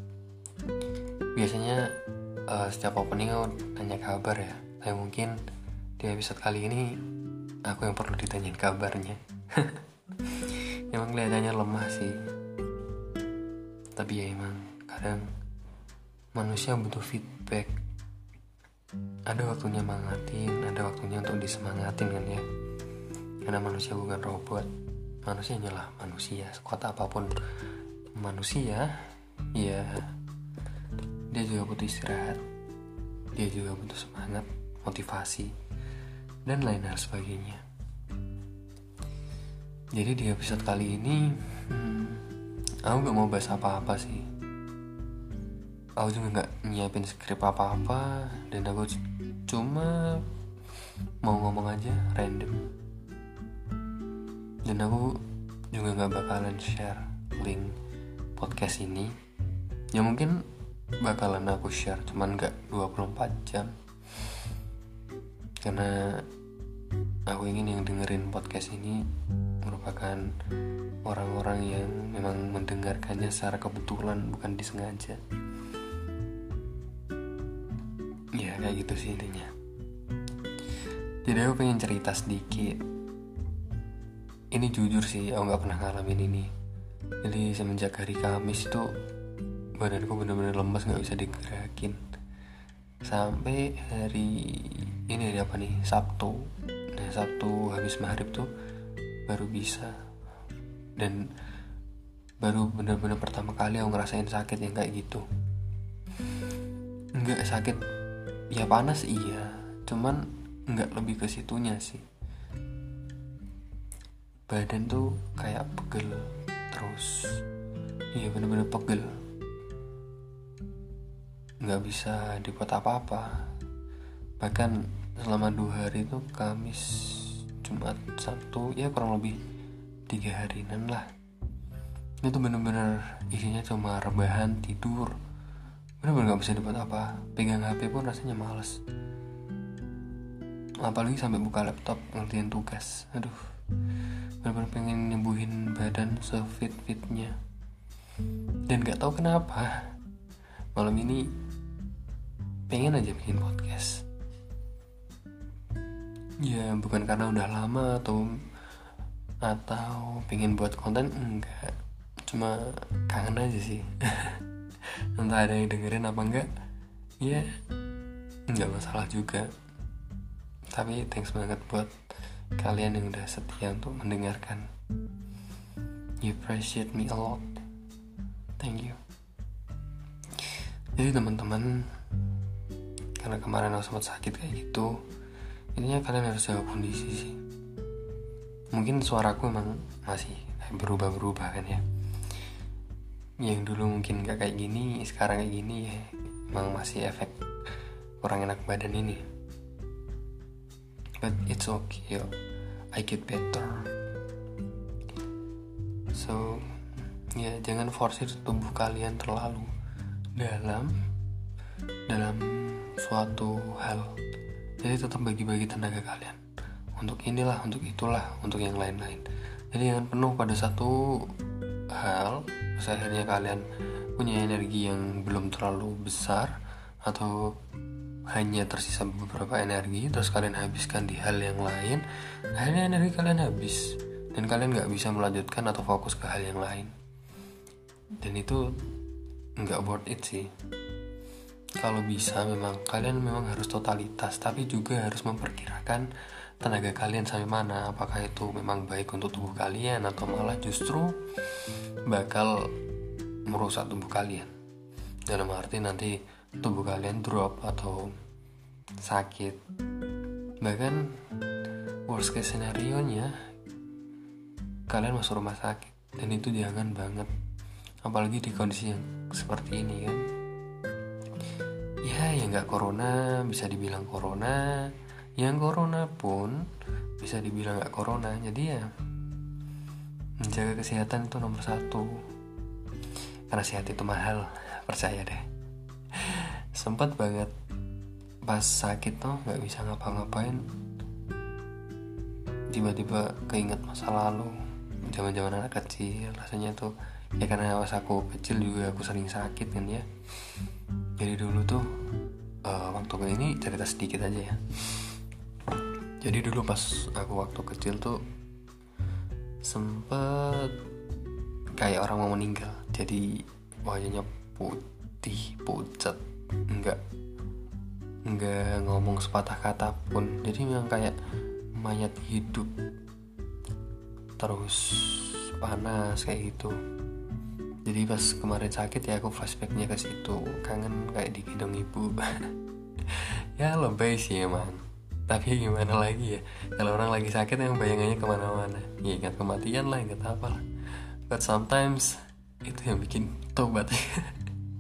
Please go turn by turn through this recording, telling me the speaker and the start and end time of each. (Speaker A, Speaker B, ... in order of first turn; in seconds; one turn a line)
Speaker A: 1.3-1.9
Speaker A: 2.5-5.4
Speaker A: 6.0-7.0
Speaker A: 7.7-12.2
Speaker A: 13.9-15.3
Speaker A: 16.3-17.7
Speaker A: 19.3-22.4
Speaker A: 23.4-24.7
Speaker A: 25.2-27.3
Speaker A: 28.1-28.9
Speaker A: 29.6-30.1
Speaker A: 31.3-32.4
Speaker A: 33.4-35.5
Speaker A: 36.5-37.6
Speaker A: 39.9-42.3
Speaker A: 42.9-44.2
Speaker A: 46.0-48.9
Speaker A: 49.5-50.2
Speaker A: 51.2-52.6
Speaker A: 54.6-55.2
Speaker A: 55.7-57.7
Speaker A: 58.4-59.1
Speaker A: 59.9-60.4
Speaker A: 61.0-63.7
Speaker A: 65.6-66.3
Speaker A: 67.3-69.1
Speaker A: 69.6-70.3
Speaker A: 71.0-75.2
Speaker A: 78.3-79.5
Speaker A: 81.2-82.8
Speaker A: 84.5-86.5
Speaker A: 87.2-88.9
Speaker A: 89.8-92.0
Speaker A: 93.0-98.5
Speaker A: 99.3-99.9
Speaker A: 101.0-101.3
Speaker A: 102.4-105.2
Speaker A: 107.2-107.8
Speaker A: 108.5-112.0
Speaker A: 114.5-117.4
Speaker A: 118.1-119.1
Speaker A: 121.6-123.5
Speaker A: 124.4-129.4
Speaker A: 130.1-131.1
Speaker A: 132.2-135.2
Speaker A: 136.0-138.8
Speaker A: 140.8-143.4
Speaker A: 144.4-147.3
Speaker A: 148.7-149.9
Speaker A: 150.7-151.3
Speaker A: 152.7-154.0
Speaker A: 156.4-158.4
Speaker A: 159.4-161.7
Speaker A: 162.2-164.4
Speaker A: 165.1-166.5
Speaker A: 167.2-167.5
Speaker A: 168.5-169.5
Speaker A: 170.7-171.9
Speaker A: 172.6-174.7
Speaker A: 176.2-177.6
Speaker A: 178.6-179.0
Speaker A: 180.4-181.9
Speaker A: 183.2-185.0
Speaker A: 185.7-187.4
Speaker A: 188.7-191.8
Speaker A: 193.4-197.4
Speaker A: 198.2-199.2
Speaker A: 201.2-202.3
Speaker A: 202.9-203.9
Speaker A: 206.1-206.8
Speaker A: 207.3-209.7
Speaker A: 210.3-210.9
Speaker A: 212.1-214.1
Speaker A: 214.8-216.4
Speaker A: 217.0-221.3
Speaker A: 221.9-223.6
Speaker A: 224.2-227.5
Speaker A: 228.3-232.0
Speaker A: 232.6-236.9
Speaker A: 238.2-238.7
Speaker A: 239.6-240.5
Speaker A: 241.8-246.1
Speaker A: 246.6-252.7
Speaker A: 253.5-254.5
Speaker A: 255.3-258.1
Speaker A: 259.0-259.6
Speaker A: 260.6-261.1
Speaker A: 262.1-263.3
Speaker A: 264.9-267.3
Speaker A: 268.0-270.2
Speaker A: 272.0-276.7
Speaker A: 277.2-278.9
Speaker A: 280.4-282.2
Speaker A: 283.5-285.4
Speaker A: 286.1-287.5
Speaker A: 288.4-290.6
Speaker A: 292.7-294.5
Speaker A: 295.1-300.1
Speaker A: 301.2-301.9
Speaker A: 302.6-305.1
Speaker A: 306.2-308.2
Speaker A: 309.6-310.8
Speaker A: 311.8-317.0
Speaker A: 318.3-321.2
Speaker A: 321.8-322.7
Speaker A: 324.4-326.8
Speaker A: 327.8-340.6
Speaker A: 341.3-344.5